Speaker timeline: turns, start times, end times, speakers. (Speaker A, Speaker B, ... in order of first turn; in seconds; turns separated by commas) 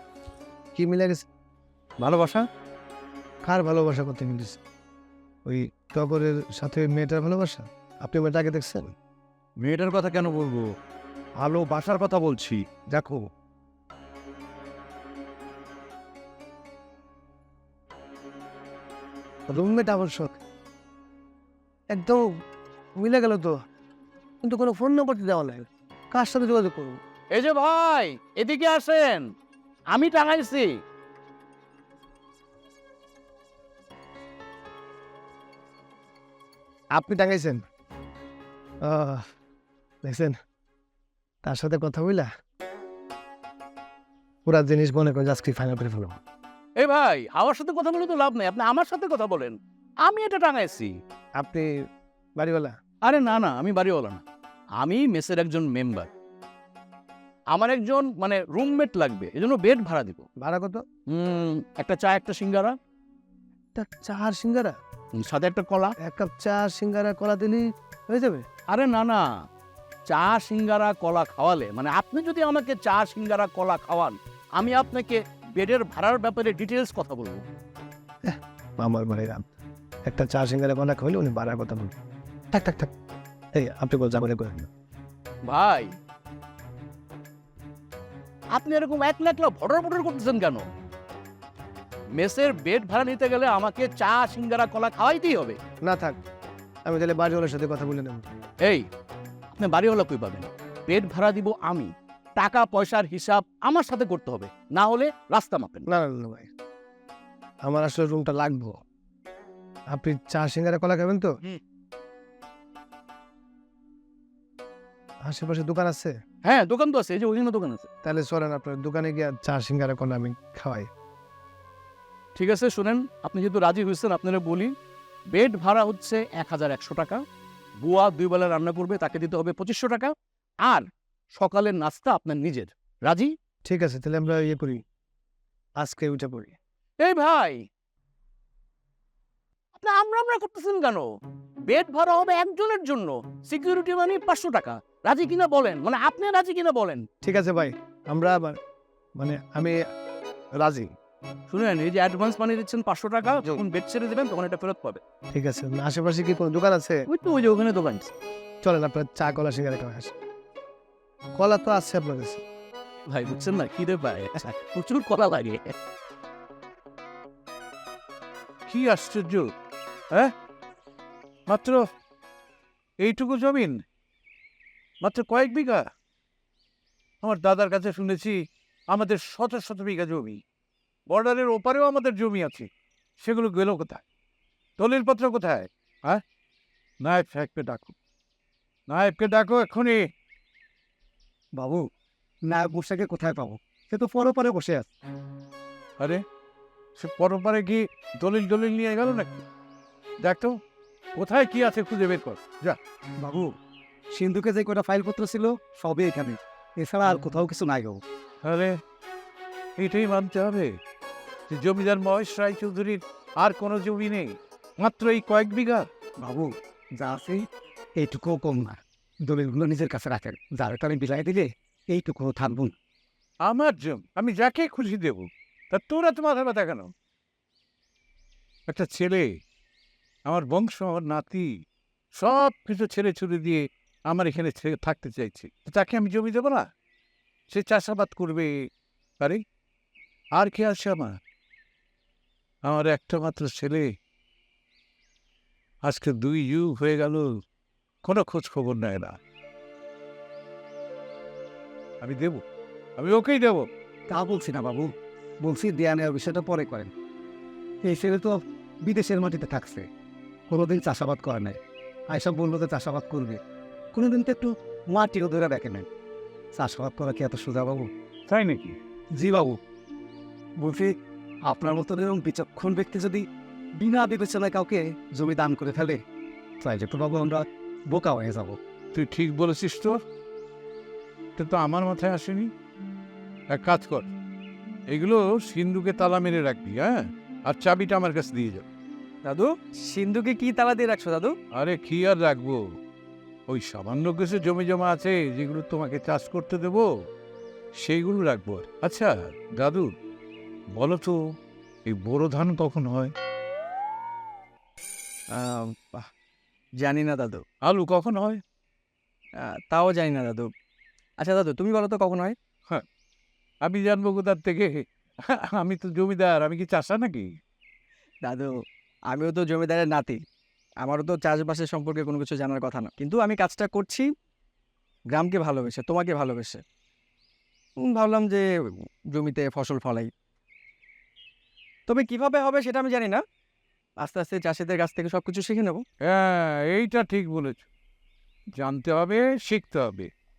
Speaker A: 0.8-1.2, Speaker B: 2.0-2.5, Speaker A: 3.4-4.6, Speaker A: 5.5-8.9, Speaker B: 9.6-10.7, Speaker B: 11.4-13.2, Speaker A: 19.5-20.4, Speaker A: 21.9-22.2, Speaker A: 23.0-23.5, Speaker A: 24.4-27.0, Speaker C: 27.3-29.2, Speaker C: 29.9-30.7, Speaker A: 37.0-37.6, Speaker A: 38.9-39.2, Speaker A: 40.0-40.3, Speaker A: 41.4-42.3, Speaker A: 44.5-46.2, Speaker C: 46.8-51.0, Speaker A: 51.4-51.7, Speaker A: 52.4-52.7, Speaker C: 53.0-54.2, Speaker C: 54.8-56.1, Speaker C: 57.5-60.2, Speaker A: 60.4-60.8, Speaker C: 61.1-62.7, Speaker A: 63.7-64.7, Speaker C: 65.2-65.9, Speaker A: 66.0-68.4, Speaker C: 68.7-69.2, Speaker C: 70.1-77.4, Speaker A: 78.3-79.4, Speaker A: 80.0-81.9, Speaker A: 82.5-82.9, Speaker A: 83.6-84.7, Speaker C: 85.5-85.9, Speaker C: 88.5-90.6, Speaker C: 92.2-95.6, Speaker A: 95.9-96.2, Speaker A: 96.9-98.3, Speaker C: 99.5-105.8, Speaker A: 105.9-106.5, Speaker A: 107.6-108.8, Speaker A: 109.9-111.3, Speaker A: 115.2-116.1, Speaker C: 116.4-117.9, Speaker A: 118.0-120.9, Speaker C: 122.3-124.7, Speaker C: 125.3-127.2, Speaker C: 127.8-133.3, Speaker A: 133.7-134.8, Speaker A: 135.8-136.6, Speaker C: 137.0-137.6, Speaker C: 139.8-141.1, Speaker C: 141.7-147.0, Speaker A: 147.2-148.6, Speaker A: 149.2-149.8, Speaker A: 150.6-150.9, Speaker C: 151.5-155.0, Speaker A: 155.3-157.0, Speaker C: 157.1-158.1, Speaker A: 158.6-160.1, Speaker A: 161.3-162.4, Speaker C: 163.1-165.7, Speaker B: 168.7-169.5, Speaker B: 171.5-171.8, Speaker B: 173.0-173.8, Speaker B: 175.0-175.9, Speaker B: 177.2-178.4, Speaker B: 178.9-180.4, Speaker B: 181.1-182.7, Speaker B: 183.2-184.0, Speaker B: 184.8-186.2, Speaker B: 187.0-187.9, Speaker B: 188.9-190.1, Speaker D: 191.6-191.8, Speaker D: 192.5-194.8, Speaker B: 197.0-199.4, Speaker B: 200.2-200.6, Speaker B: 201.2-202.8, Speaker D: 203.2-203.5, Speaker D: 204.1-208.0, Speaker B: 208.4-208.8, Speaker B: 209.8-210.7, Speaker B: 211.5-215.9, Speaker D: 216.2-216.5, Speaker D: 217.0-217.4, Speaker D: 218.0-222.7, Speaker B: 223.4-226.9, Speaker B: 228.7-229.3, Speaker B: 230.2-231.5, Speaker B: 232.2-236.7, Speaker B: 237.5-238.5, Speaker B: 240.3-241.2, Speaker B: 242.6-243.9, Speaker B: 245.8-247.3, Speaker B: 248.0-249.2, Speaker B: 252.0-252.4, Speaker B: 253.0-253.7, Speaker D: 254.1-256.9, Speaker D: 257.8-259.9, Speaker D: 260.5-261.6, Speaker D: 262.1-263.4, Speaker D: 263.9-265.9, Speaker D: 266.5-267.9, Speaker B: 268.3-268.8, Speaker D: 269.1-269.6, Speaker D: 271.4-273.2, Speaker D: 273.8-276.0, Speaker D: 276.6-278.6, Speaker B: 278.9-280.0, Speaker B: 281.4-282.5, Speaker B: 283.5-284.1, Speaker B: 284.9-288.6, Speaker E: 289.2-291.3, Speaker B: 291.5-292.6, Speaker B: 293.5-296.9, Speaker B: 297.8-299.9, Speaker B: 300.8-301.2, Speaker B: 301.9-303.1, Speaker E: 305.3-306.1, Speaker E: 306.8-307.4, Speaker B: 307.6-308.4, Speaker E: 309.4-310.5, Speaker E: 311.2-312.4, Speaker B: 313.6-317.3, Speaker E: 318.2-318.5, Speaker E: 319.1-320.2, Speaker E: 320.8-324.1, Speaker E: 325.1-326.6, Speaker E: 327.8-328.5, Speaker E: 329.1-330.1, Speaker E: 331.9-333.2, Speaker E: 334.0-335.8, Speaker B: 336.0-337.6, Speaker B: 338.6-340.1